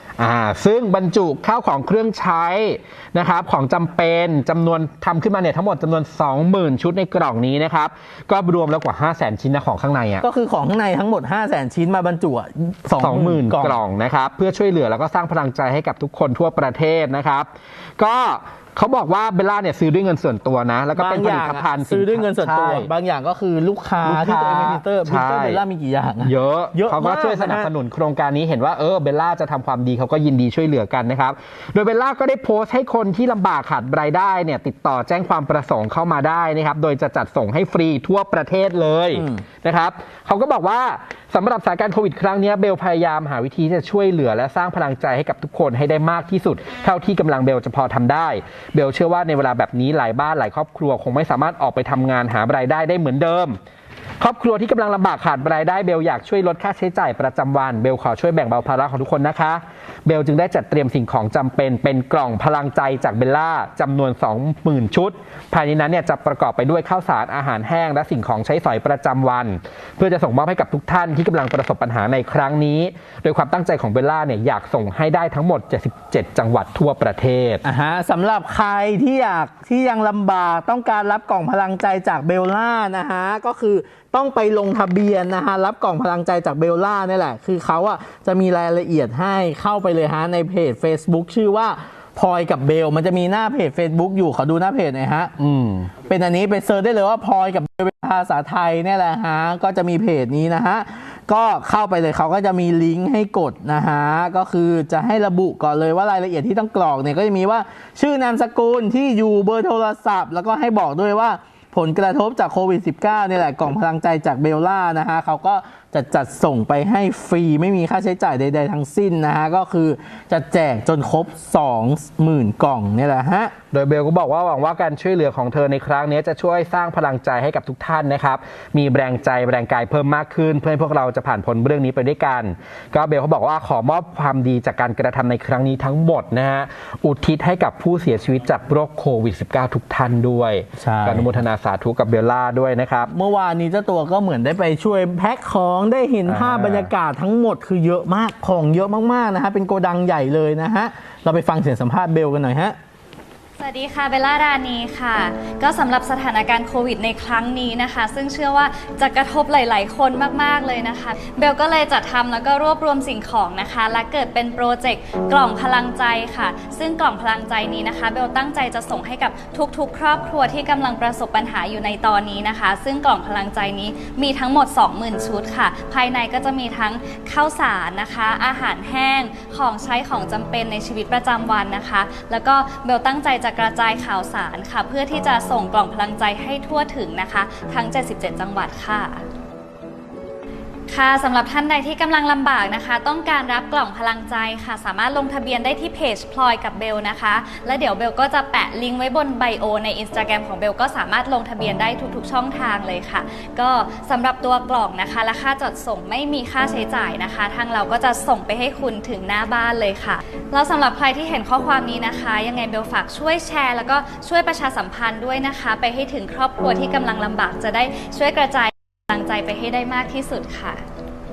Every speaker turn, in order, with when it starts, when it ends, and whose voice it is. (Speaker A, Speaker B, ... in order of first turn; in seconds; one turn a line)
Speaker A: 0.2-10.2
Speaker B: 10.2-13.8
Speaker A: 13.0-22.9
Speaker B: 20.9-27.7
Speaker A: 24.0-25.6
Speaker A: 26.2-53.6
Speaker B: 39.1-39.4
Speaker A: 54.2-77.6
Speaker B: 77.6-95.3
Speaker A: 95.4-95.9
Speaker B: 96.0-123.5
Speaker A: 123.7-143.1
Speaker B: 140.8-141.4
Speaker B: 143.1-152.8
Speaker A: 146.2-146.9
Speaker C: 153.6-189.2
Speaker C: 190.9-220.8